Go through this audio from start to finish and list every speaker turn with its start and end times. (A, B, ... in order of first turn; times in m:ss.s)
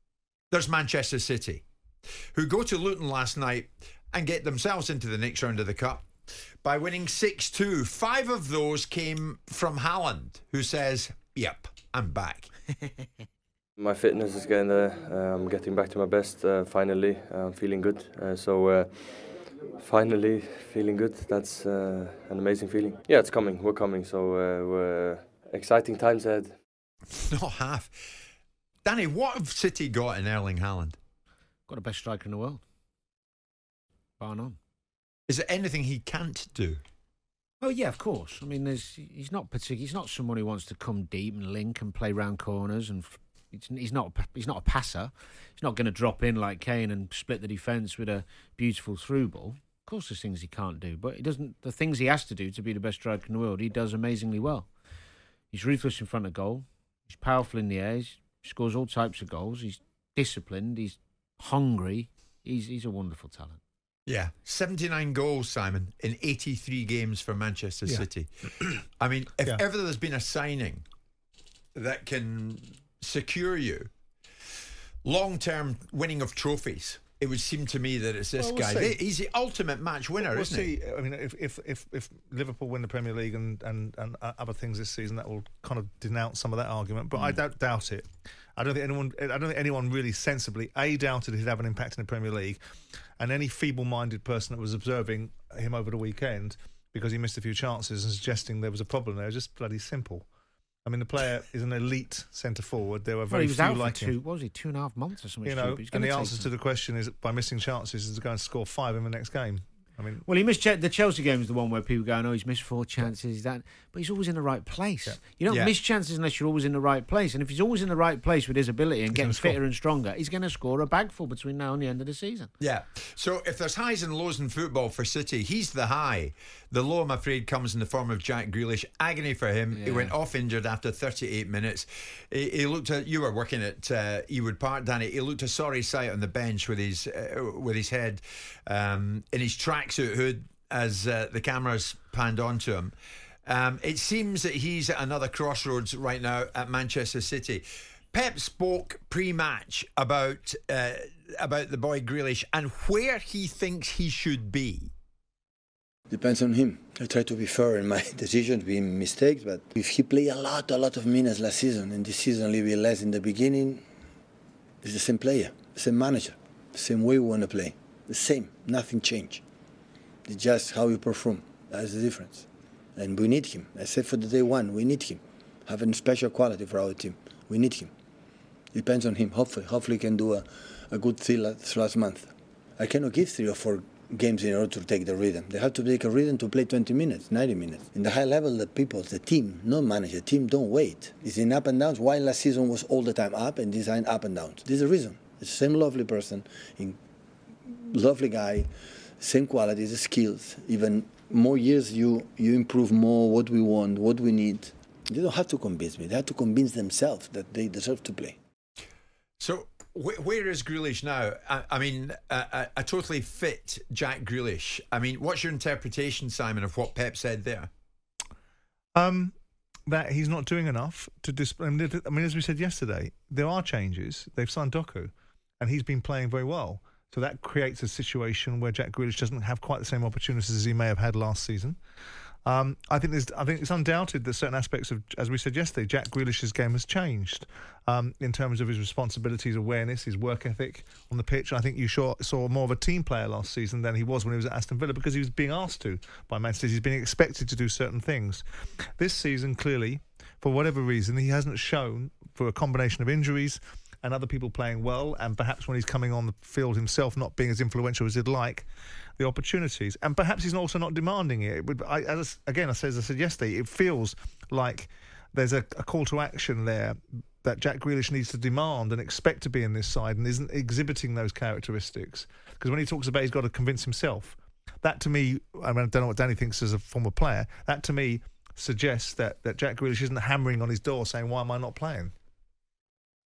0:00.5-0:01.6 A
0:02.3-0:06.1 A
0:06.6-0:12.5 A
0:13.8-0:19.3 B
0:19.8-0:26.5 B
0:27.1-0:27.9 A
0:28.8-0:31.0 A
0:31.7-0:32.6 C
0:34.2-0:34.6 C
0:35.3-0:36.8 A
0:37.6-0:54.7 C
0:55.5-1:03.6 C
1:04.1-1:10.8 A
1:11.8-1:13.9 A
1:15.0-1:20.7 A
1:18.4-1:19.0 D
1:20.2-1:32.6 D
1:33.2-1:40.3 D
1:40.8-1:44.2 D
1:43.3-1:46.5 C
1:45.4-1:50.2 D
1:50.3-2:02.5 C
1:55.5-1:55.7 A
1:59.1-1:59.6 D
2:02.6-2:22.9 A
2:09.7-2:10.1 C
2:23.5-2:34.9 A
2:36.1-2:43.8 E
2:44.8-2:49.4 E
2:50.3-2:57.9 E
2:58.7-3:17.0 E
3:17.7-3:18.7 E
3:19.2-3:28.4 E
3:29.4-3:37.7 A
3:39.0-3:39.3 D
3:39.9-3:51.8 D
3:52.4-4:08.4 D
4:09.0-4:18.7 D
4:19.2-4:42.1 D